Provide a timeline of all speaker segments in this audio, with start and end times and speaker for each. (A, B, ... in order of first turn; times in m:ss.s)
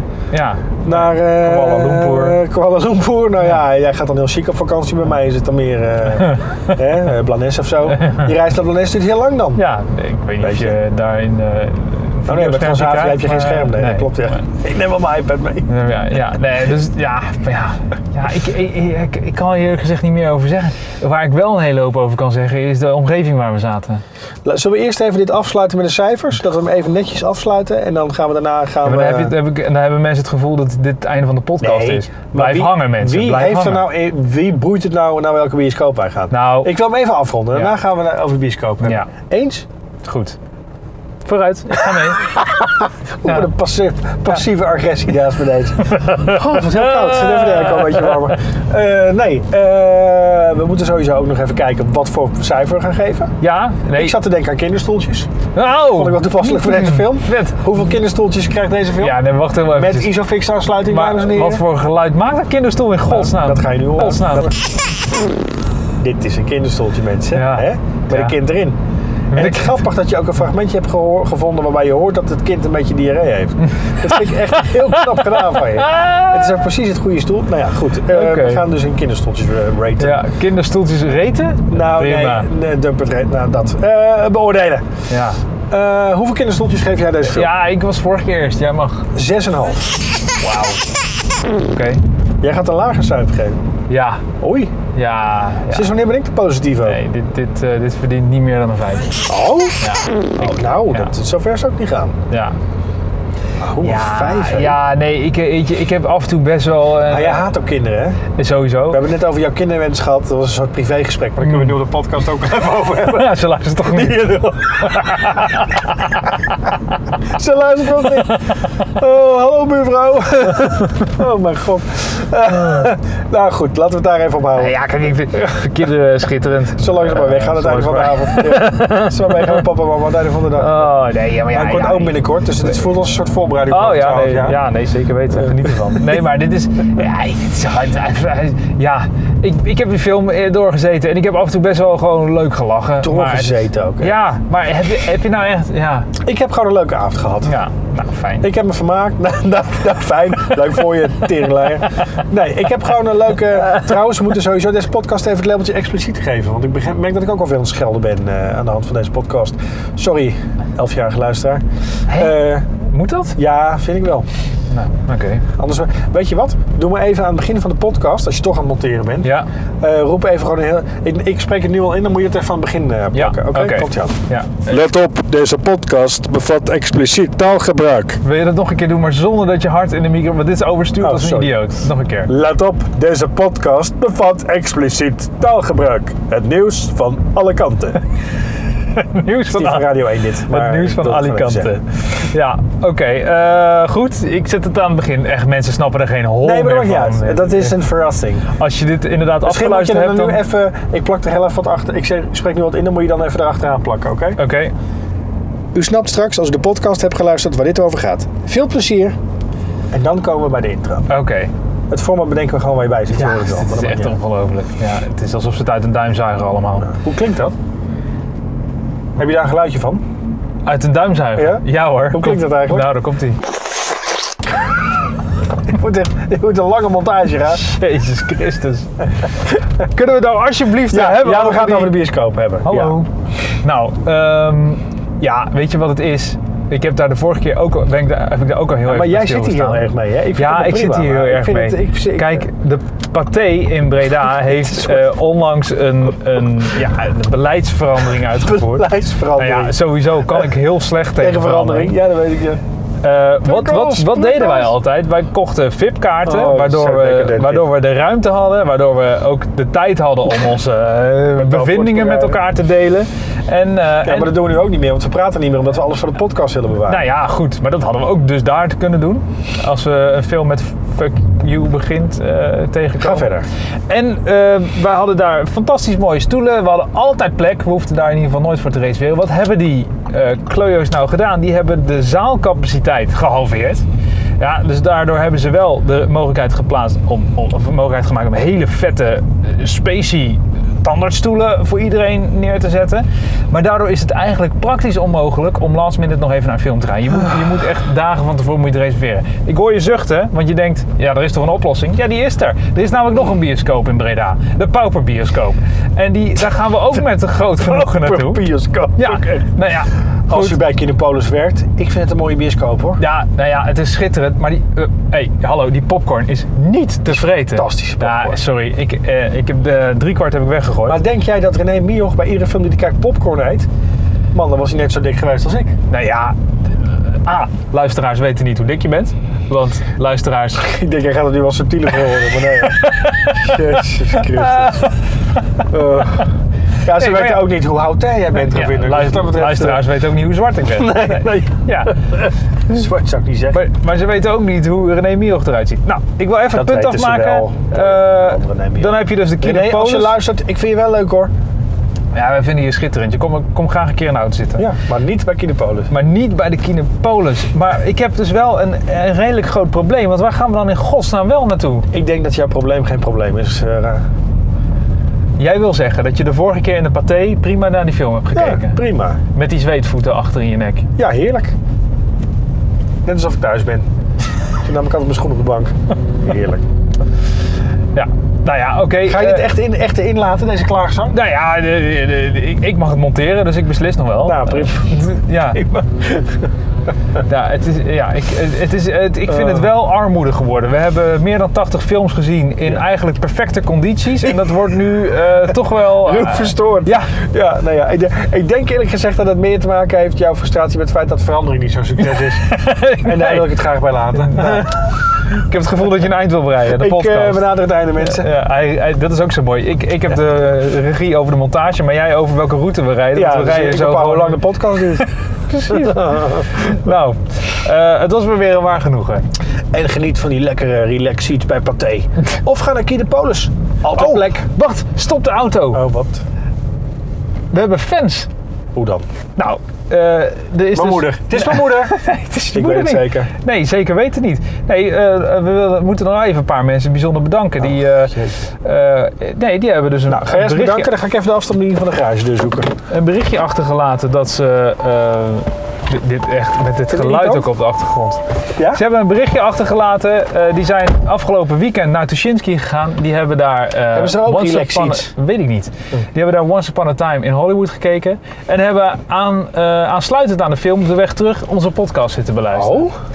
0:00.3-0:02.4 A
0:00.8-0:09.6 B
0:08.0-0:08.3 A
0:09.6-0:14.3 A
0:10.4-0:10.8 B
0:12.2-0:15.7 B
0:15.7-0:24.0 A
0:24.4-0:29.3 B
0:28.8-0:33.9 A
0:31.6-0:39.6 B
0:36.3-0:36.7 A
0:38.8-0:39.1 A
0:40.0-0:40.4 A
0:41.2-0:42.4 A
0:41.8-0:53.3 B
0:43.2-0:43.5 A
0:45.8-0:48.3 A
0:53.4-0:54.2 A
0:53.9-0:55.3 B
0:55.5-0:57.7 A
0:55.9-0:59.2 B
0:59.0-1:00.1 A
0:59.7-1:01.6 B
1:00.8-1:04.5 A
1:03.1-1:04.7 B
1:06.0-1:08.8 B
1:07.3-1:08.4 A
1:09.3-1:09.8 A
1:09.3-1:20.2 B
1:14.0-1:16.6 A
1:18.1-1:18.7 A
1:20.0-1:22.5 A
1:21.7-1:24.8 B
1:25.1-1:25.4 A
1:25.7-1:27.5 B
1:27.2-1:29.1 A
1:29.1-1:30.0 B
1:30.4-1:30.9 A
1:31.5-1:32.0 A
1:32.4-1:33.6 B
1:33.9-1:34.2 A
1:34.4-1:34.7 B
1:34.9-1:35.9 A
1:35.7-1:37.0 B
1:36.8-1:39.2 A
1:39.2-1:42.2 B
1:39.8-1:41.1 A
1:42.3-1:42.6 A
1:43.6-1:44.8 B
1:43.8-1:47.5 A
1:47.1-1:48.2 B
1:48.4-1:49.0 A
1:48.9-1:55.8 B
1:51.4-1:51.8 A
1:53.0-1:56.5 A
1:57.2-2:04.8 B
1:58.1-1:58.5 A
2:04.6-2:09.7 A
2:06.8-2:10.9 B
2:10.6-2:12.2 A
2:11.5-2:14.6 B
2:13.7-2:26.1 A
2:23.0-2:24.2 B
2:26.2-2:27.6 B
2:27.4-2:28.5 A
2:28.4-2:42.7 B
2:42.1-2:43.4 A
2:43.4-2:44.2 B
2:44.7-2:45.4 A
2:45.6-2:58.2 B
2:49.2-2:49.5 A
2:53.1-2:54.7 A
2:58.2-3:02.3 A
3:01.0-3:01.6 B
3:02.3-3:08.0 B
3:08.9-3:17.8 A
3:09.5-3:11.8 B
3:16.4-3:18.5 B
3:18.5-3:20.4 A
3:19.4-3:24.4 B
3:24.4-3:24.7 A
3:25.7-3:29.1 B
3:29.9-3:31.1 B
3:31.1-3:31.5 A
3:31.9-3:34.2 B
3:33.1-3:36.9 A
3:36.8-3:37.5 B
3:39.2-3:40.0 B
3:40.6-3:43.4 A
3:41.4-3:42.9 B
3:45.7-3:47.7 B
3:47.5-3:52.0 A
3:50.9-3:53.0 B
3:52.6-4:12.0 A
3:58.8-4:02.5 B
4:04.4-4:05.0 B
4:08.4-4:09.8 B
4:11.2-4:12.6 B
4:13.0-4:24.4 A
4:13.4-4:14.7 B
4:16.2-4:17.7 B
4:21.4-4:22.4 B
4:24.0-4:27.0 B
4:26.9-4:33.3 A
4:33.0-4:33.5 B
4:33.9-4:43.8 A
4:44.4-5:10.6 A
5:07.6-5:09.5 B
5:10.3-5:13.0 B
5:13.0-5:21.0 A
5:17.2-5:18.4 B
5:20.9-5:23.7 B
5:24.3-5:25.8 B
5:25.9-5:30.7 A
5:30.6-5:35.0 B
5:32.4-5:35.4 A
5:35.6-5:36.3 B
5:36.8-5:39.8 B
5:36.9-5:37.5 A
5:38.3-5:42.0 A
5:40.7-5:43.6 B
5:43.5-5:50.2 A
5:46.5-5:51.3 B
5:52.1-5:54.6 A
5:54.6-5:55.9 B
5:55.9-6:01.9 A
6:01.9-6:04.0 B
6:05.4-6:08.8 A
6:08.3-6:09.2 B
6:09.3-6:10.9 A
6:11.0-6:11.5 B
6:13.0-6:13.9 B
6:14.6-6:16.6 B
6:17.9-6:19.5 A
6:19.0-6:21.2 B
6:21.1-6:25.6 A
6:24.2-6:25.0 B
6:25.5-6:26.4 B
6:27.2-6:37.1 A
6:29.3-6:29.6 B
6:35.8-6:44.8 B
6:42.2-6:43.5 A
6:44.2-6:59.2 A
6:46.7-6:48.3 B
6:53.1-6:55.1 B
6:55.6-6:56.7 B
6:59.7-7:04.5 B
7:03.9-7:05.8 A
7:05.7-7:06.2 B
7:07.5-7:08.3 A
7:08.7-7:09.0 B
7:09.4-7:20.9 A
7:10.7-7:12.0 B
7:12.5-7:13.3 B
7:17.6-7:18.4 B
7:20.1-7:22.7 B
7:22.9-7:42.8 A
7:26.9-7:27.5 B
7:33.9-7:35.1 B
7:42.5-7:42.9 B